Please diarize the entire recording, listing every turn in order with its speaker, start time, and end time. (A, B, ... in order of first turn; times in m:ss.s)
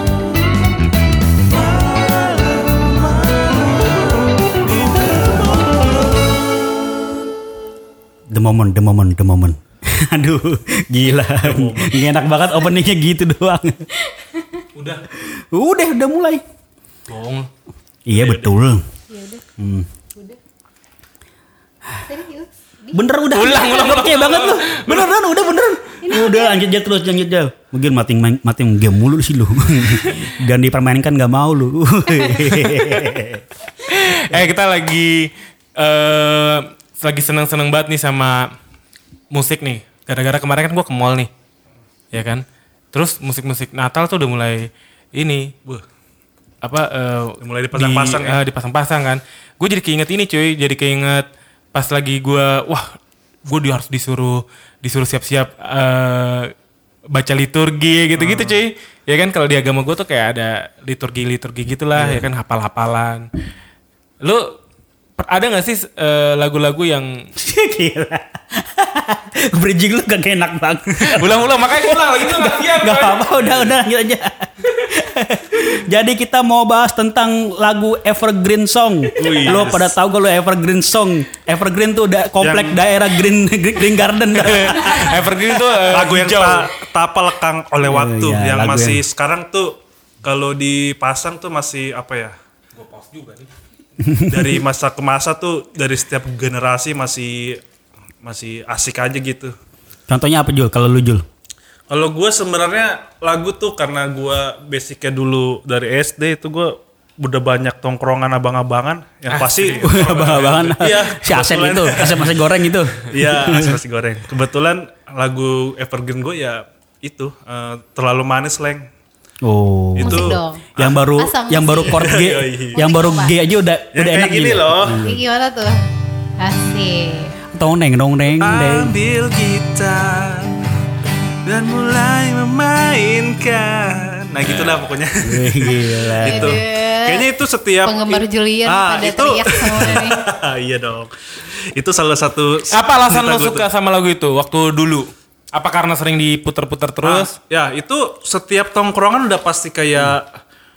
0:01.8-0:03.4 A
0:08.3-0:13.9 B
0:11.4-0:12.0 A
0:14.8-0:15.0 C
0:15.1-0:16.4 B
0:17.1-0:17.5 C
0:18.1-0:18.8 B
0:18.1-0:18.5 A
0:19.1-0:19.4 D
0:19.6-0:19.9 B
0:22.1-0:23.0 D
0:22.9-0:33.4 B
0:23.3-0:25.1 C
0:23.5-0:23.9 D
0:26.0-0:26.6 D
0:32.3-0:33.1 C
0:33.8-0:38.5 C
0:39.3-0:41.3 C
0:42.1-0:45.5 C
0:46.6-0:56.5 C
0:47.4-0:48.4 A
0:57.1-1:03.3 C
0:58.2-0:58.6 A
1:02.0-1:02.3 B
1:04.2-1:04.6 C
1:05.2-1:07.2 C
1:07.4-1:25.5 B
1:11.2-1:13.5 C
1:19.2-1:19.9 A
1:19.5-1:19.8 C
1:22.4-1:22.8 A
1:24.3-1:26.7 C
1:25.8-1:32.3 A
1:27.8-1:29.0 B
1:32.7-1:33.5 C
1:34.0-1:34.6 B
1:34.3-1:37.6 A
1:38.2-1:39.5 A
1:40.1-1:41.2 B
1:41.9-1:52.3 A
1:49.3-1:50.3 C
1:49.7-1:53.8 B
1:53.0-1:58.9 A
1:59.4-2:05.2 B
2:00.0-2:01.0 A
2:00.0-2:00.6 D
2:01.2-2:01.9 D
2:01.9-2:02.8 A
2:02.8-2:03.3 D
2:02.9-2:03.2 C
2:03.9-2:05.0 A
2:05.0-2:05.7 D
2:06.4-2:07.3 D
2:07.5-2:09.0 B
2:08.3-2:10.7 A
2:11.4-2:21.1 A
2:15.2-2:16.6 B
2:16.3-2:17.3 D
2:17.8-2:20.2 D
2:21.8-2:23.7 A
2:22.7-2:27.4 C
2:27.0-2:30.3 A